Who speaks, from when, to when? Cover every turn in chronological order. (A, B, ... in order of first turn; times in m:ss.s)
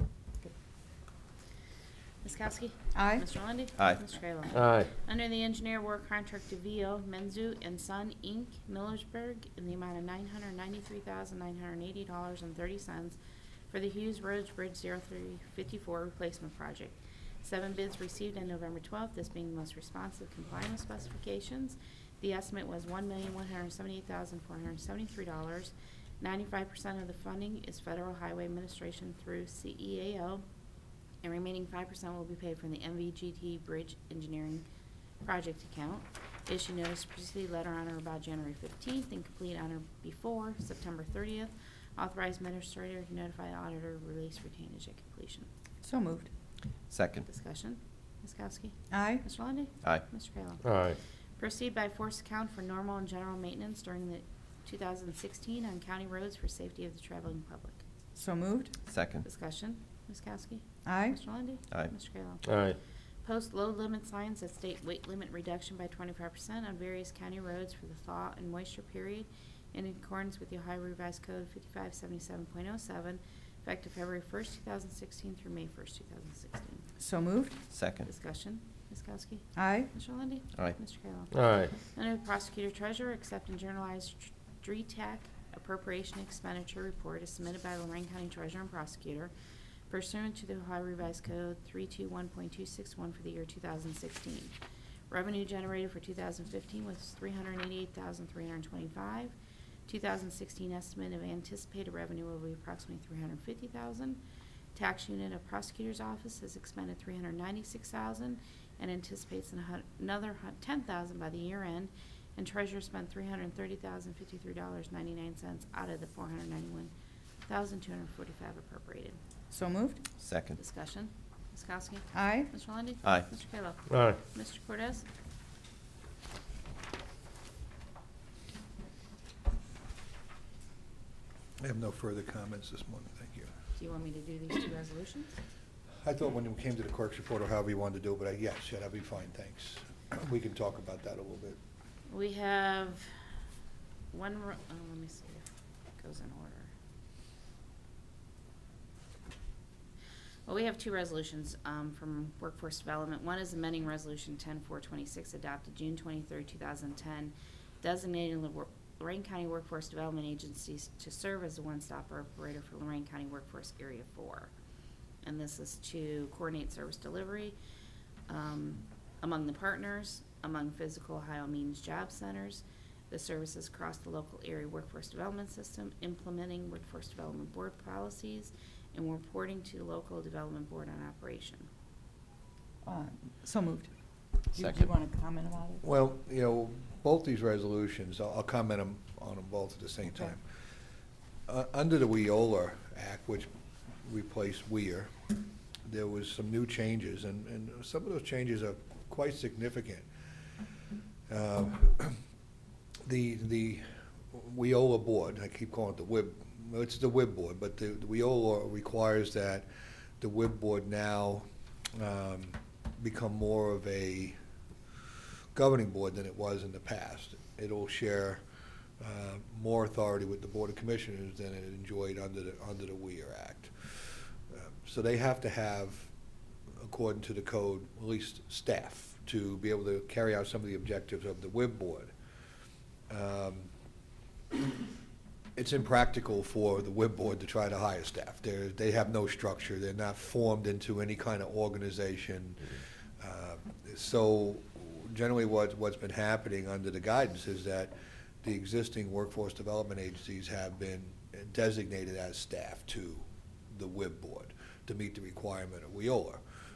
0:02.2-0:13.2 A
0:02.9-0:03.2 B
0:04.5-0:04.9 C
0:13.7-0:30.4 A
0:31.2-0:34.6 A
0:35.2-0:45.5 A
0:45.8-0:46.3 B
0:46.9-0:47.2 D
0:47.3-0:50.7 A
0:48.9-0:49.2 B
0:50.6-0:51.0 C
0:51.4-0:57.8 A
0:58.2-0:58.8 B
0:58.9-0:59.2 D
0:59.2-1:02.4 A
1:00.8-1:01.2 B
1:02.4-1:02.8 C
1:03.2-1:16.8 A
1:17.0-1:17.6 B
1:17.7-1:18.1 D
1:18.0-1:29.3 A
1:19.6-1:19.9 B
1:21.3-1:21.7 C
1:29.9-1:34.5 A
1:35.1-1:39.3 A
1:39.9-1:44.2 A
1:44.7-1:56.9 A
1:57.4-1:59.2 A
1:59.5-2:00.0 B
2:00.2-2:00.6 D
2:00.6-2:05.0 A
2:02.1-2:02.5 B
2:03.9-2:04.2 C
2:11.6-2:13.5 E
2:13.7-2:15.4 A
2:16.0-2:21.6 E
2:22.1-2:23.1 A
2:24.1-2:25.5 A
2:26.0-2:26.7 A
2:30.5-2:44.5 A
2:45.2-2:47.5 A
2:48.3-3:01.7 A
3:02.8-3:03.9 B
3:04.5-3:05.8 B
3:04.5-3:04.9 D
3:05.8-3:10.4 E
3:11.5-3:13.5 E
3:14.0-3:15.1 E
3:15.8-3:20.0 E
3:21.3-3:22.2 E
3:23.0-3:29.6 E
3:30.2-3:34.3 E
3:35.5-3:38.4 E
3:39.0-3:46.1 E
3:46.8-3:52.1 E
3:53.1-3:53.7 E
3:55.6-4:16.4 E